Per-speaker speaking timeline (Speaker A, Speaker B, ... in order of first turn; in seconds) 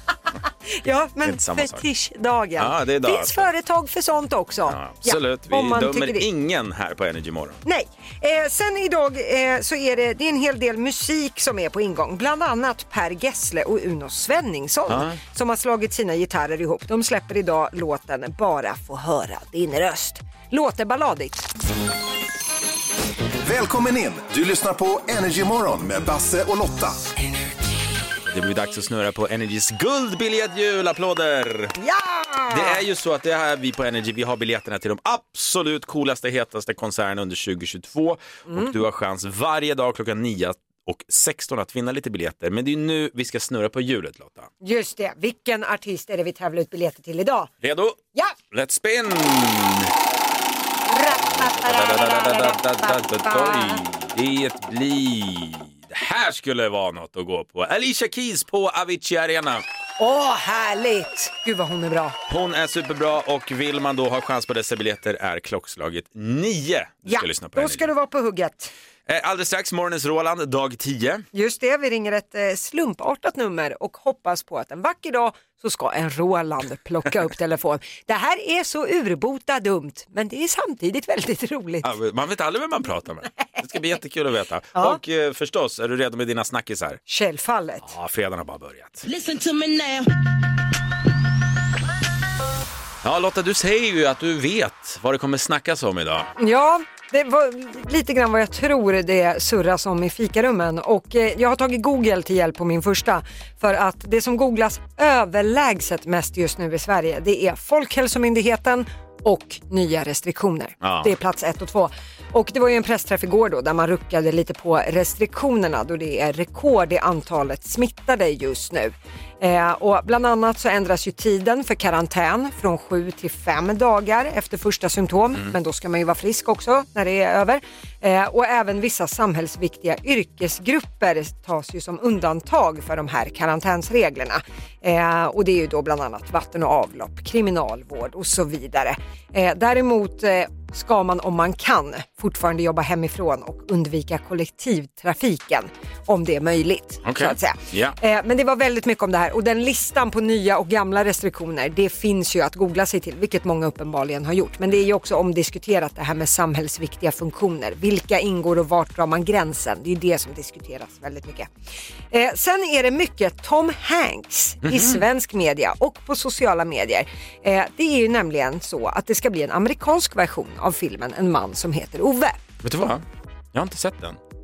Speaker A: 0.8-6.2, 7.6-21.5, 31.8-32.8, 44.6-47.5, 50.9-53.8, 60.0-62.1, 67.1-68.7, 71.3-81.9, 87.1-87.9, 96.4-161.5, 162.1-172.4
Speaker B: 1.2-1.8, 2.6-3.5, 4.7-7.6, 14.9-15.2, 28.2-31.8, 32.5-44.5, 47.6-48.0, 48.5-49.9, 51.3-59.6, 62.3-67.9, 69.1-71.2, 81.8-87.0, 87.8-89.0, 93.0-96.3, 110.8-111.1, 147.0-148.0, 164.6-165.0, 172.6-174.2
Speaker C: 23.4-27.0